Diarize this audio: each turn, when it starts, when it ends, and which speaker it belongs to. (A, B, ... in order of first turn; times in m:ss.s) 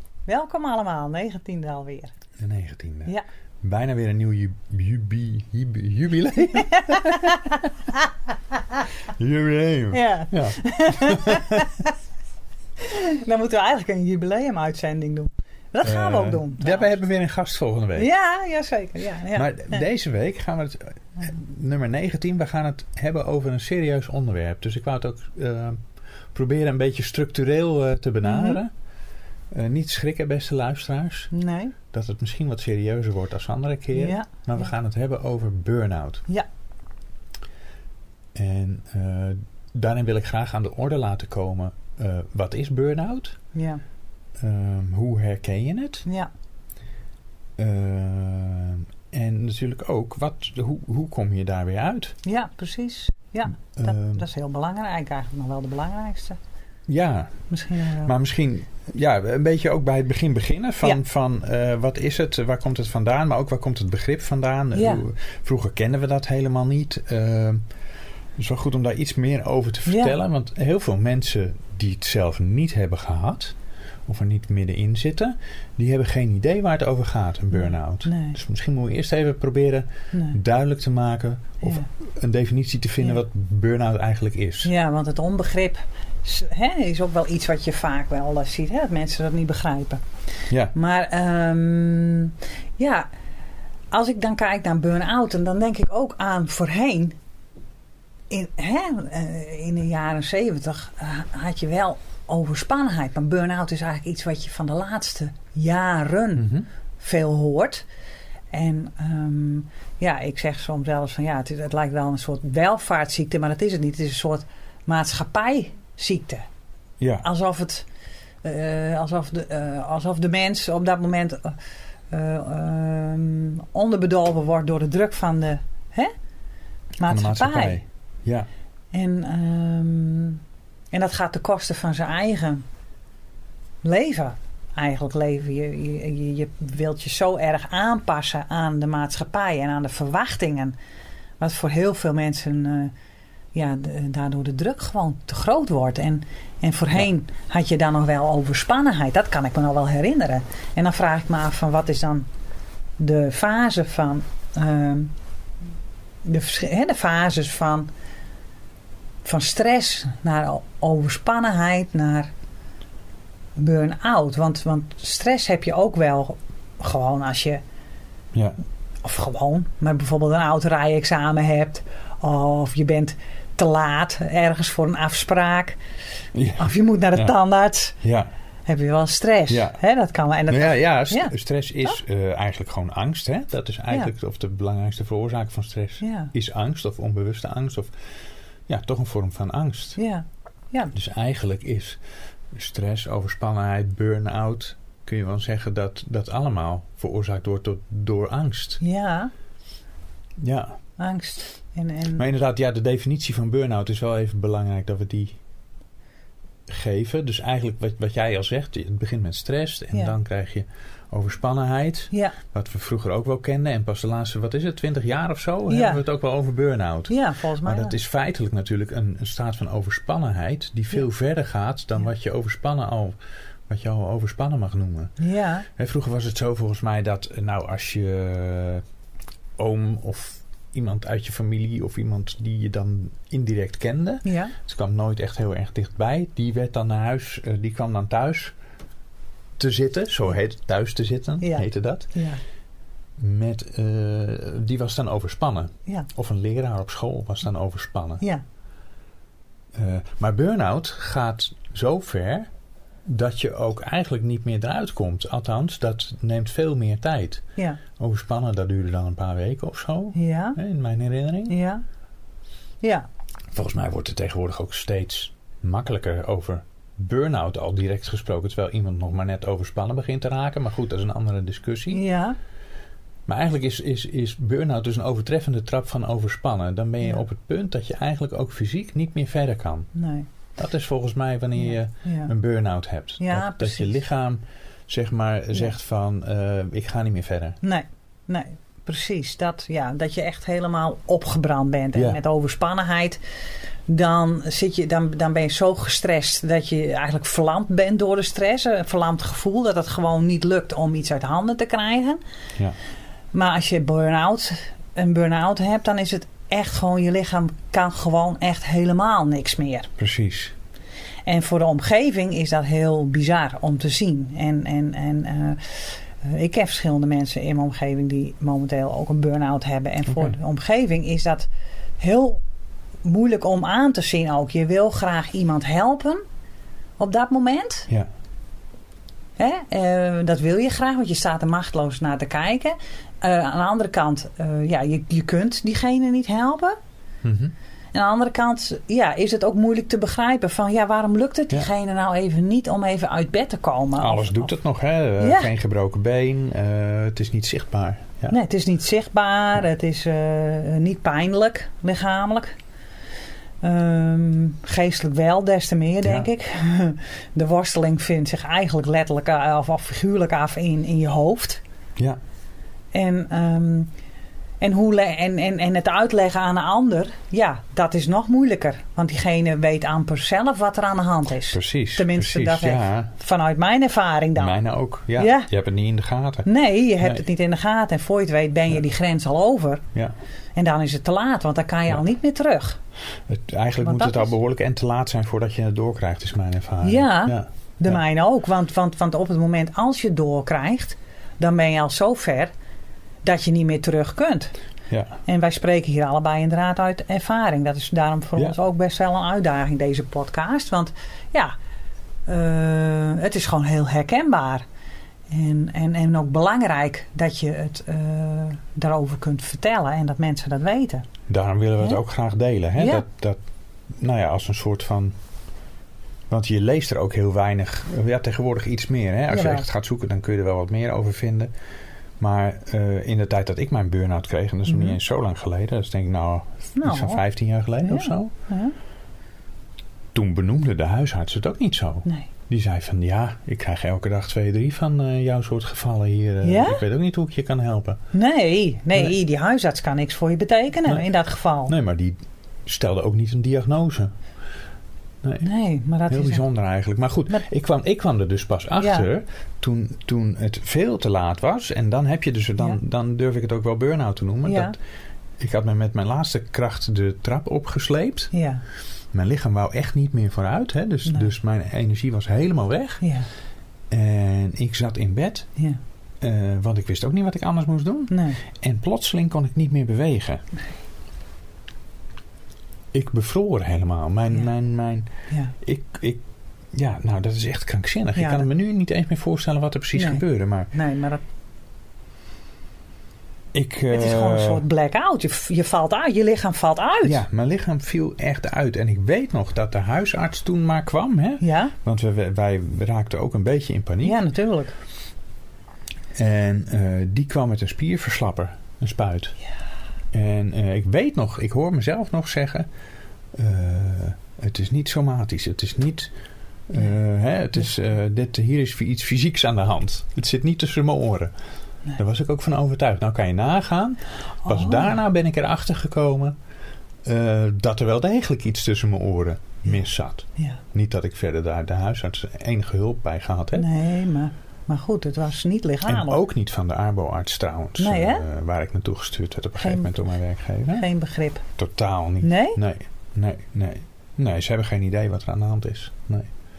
0:00.3-0:02.1 A
0:02.4-0:07.5 B
0:06.9-0:07.5 A
0:09.1-0:11.8 B
0:09.9-0:11.9 A
0:12.8-0:16.9 A
0:15.8-0:18.1 B
0:18.0-0:19.8 A
0:19.3-0:25.8 B
0:26.3-0:28.7 B
0:28.2-0:28.6 A
0:29.5-0:31.3 B
0:31.3-0:31.7 A
0:31.9-0:36.2 B
0:33.9-0:34.7 A
0:38.3-0:43.4 B
0:43.5-0:43.8 A
0:44.4-0:46.0 B
0:47.6-0:52.2 B
0:52.2-0:56.4 A
0:53.8-0:54.2 B
0:56.9-0:57.4 B
0:57.5-0:58.1 A
0:58.0-1:07.6 B
1:04.7-1:05.0 A
1:08.4-1:13.5 B
1:09.9-1:10.1 A
1:14.1-1:24.7 B
1:17.5-1:18.4 A
1:20.1-1:20.4 A
1:24.6-1:30.0 A
1:30.7-1:33.1 A
1:33.9-1:37.2 A
1:38.3-1:46.5 A
1:46.4-1:46.6 B
1:47.0-1:47.8 A
1:48.5-1:56.4 A
1:57.0-1:57.3 B
1:57.2-1:57.8 A
1:58.4-2:01.6 A
2:02.1-2:06.1 A
2:07.0-2:07.8 A
2:07.0-2:08.5 B
2:08.9-2:12.6 A
2:13.8-2:20.8 A
2:21.4-2:22.9 A
2:23.5-2:32.3 A
2:33.0-2:35.1 A
2:36.2-2:37.9 A
2:39.2-2:42.3 A
2:43.6-2:47.6 A
2:48.3-2:48.6 B
2:49.0-2:55.8 A
2:56.3-2:57.3 B
2:56.6-2:58.0 A
2:58.0-2:58.3 B
2:58.6-3:01.3 A
2:59.5-2:59.8 B
3:00.5-3:07.9 B
3:06.0-3:06.3 A
3:08.7-3:10.0 B
3:10.0-3:10.9 A
3:10.9-3:12.0 B
3:12.5-3:18.8 B
3:18.8-3:19.3 A
3:20.4-3:20.8 B
3:21.0-3:22.2 A
3:22.1-3:25.4 B
3:26.7-3:43.2 B
3:32.1-3:32.4 A
3:35.7-3:36.0 A
3:37.1-3:37.9 A
3:43.7-3:45.1 B
3:45.2-3:45.6 A
3:45.8-3:48.8 B
3:49.6-3:58.5 B
3:54.2-3:54.5 A
3:59.6-4:02.1 B
4:01.4-4:02.4 A
4:03.2-4:08.2 B
4:09.7-4:12.5 B
4:13.0-4:17.4 B
4:18.0-4:21.6 B
4:20.1-4:20.6 A
4:21.5-4:21.8 A
4:23.5-4:32.0 B
4:31.9-4:32.4 A
4:33.3-4:39.9 B
4:39.9-4:40.3 A
4:40.6-4:47.6 B
4:42.0-4:42.3 A
4:43.2-4:44.0 A
4:47.6-4:53.2 A
4:53.9-5:02.2 A
5:03.3-5:09.9 A
5:10.0-5:10.5 B
5:11.2-5:21.5 A
5:22.0-5:22.4 A
5:23.0-5:26.2 A
5:27.0-5:27.9 A
5:29.4-5:36.8 A
5:37.2-5:37.5 B
5:37.9-5:44.5 A
5:44.0-5:48.4 B
5:45.2-5:45.5 A
5:48.3-5:52.5 A
5:53.6-6:01.6 A
5:56.0-5:56.3 B
6:02.9-6:03.9 A
6:04.6-6:14.6 A
6:11.5-6:13.1 B
6:14.4-6:16.5 B
6:15.2-6:15.5 A
6:16.4-6:19.8 A
6:20.6-6:22.8 A
6:23.3-6:28.0 B
6:23.8-6:24.3 A
6:26.8-6:32.5 A
6:33.2-6:34.5 A
6:34.9-6:35.2 B
6:35.3-6:41.5 A
6:42.3-6:44.6 A
6:45.3-6:51.0 A
6:51.3-6:53.4 B
6:52.8-6:53.0 A
6:53.9-6:55.1 B
6:56.3-7:01.5 B
6:59.3-6:59.6 A
7:02.2-7:08.3 B
7:04.7-7:05.0 A
7:06.8-7:07.2 A
7:07.8-7:08.7 A
7:10.1-7:18.0 B
7:16.4-7:16.8 A
7:18.1-7:21.7 A
7:21.6-7:24.1 B
7:25.2-7:25.5 B
7:25.4-7:26.4 A
7:26.1-7:34.7 B
7:28.8-7:29.1 A
7:34.4-7:34.7 A
7:35.4-7:38.3 B
7:38.3-7:38.6 A
7:39.1-7:43.0 B
7:43.0-7:43.3 A
7:43.9-7:45.5 B
7:46.2-7:50.4 B
7:48.1-7:48.4 A
7:52.9-7:55.1 B
7:55.6-7:56.2 B
7:56.7-8:00.7 B
7:58.2-7:58.4 A
7:59.9-8:01.2 A
8:03.5-8:04.6 B
8:03.9-8:07.2 A
8:07.0-8:14.2 B
8:11.4-8:11.7 A
8:14.0-8:14.7 A
8:16.1-8:19.3 B
8:20.1-8:22.7 B
8:23.3-8:26.1 B
8:26.7-8:31.3 B
8:31.9-8:36.4 B
8:34.5-8:34.9 A
8:37.0-8:43.7 B
8:43.5-8:46.2 A
8:45.8-8:50.8 B
8:47.8-8:48.2 A
8:49.6-8:49.9 A
8:50.7-8:51.4 A
8:51.6-8:56.3 B
8:52.2-8:52.6 A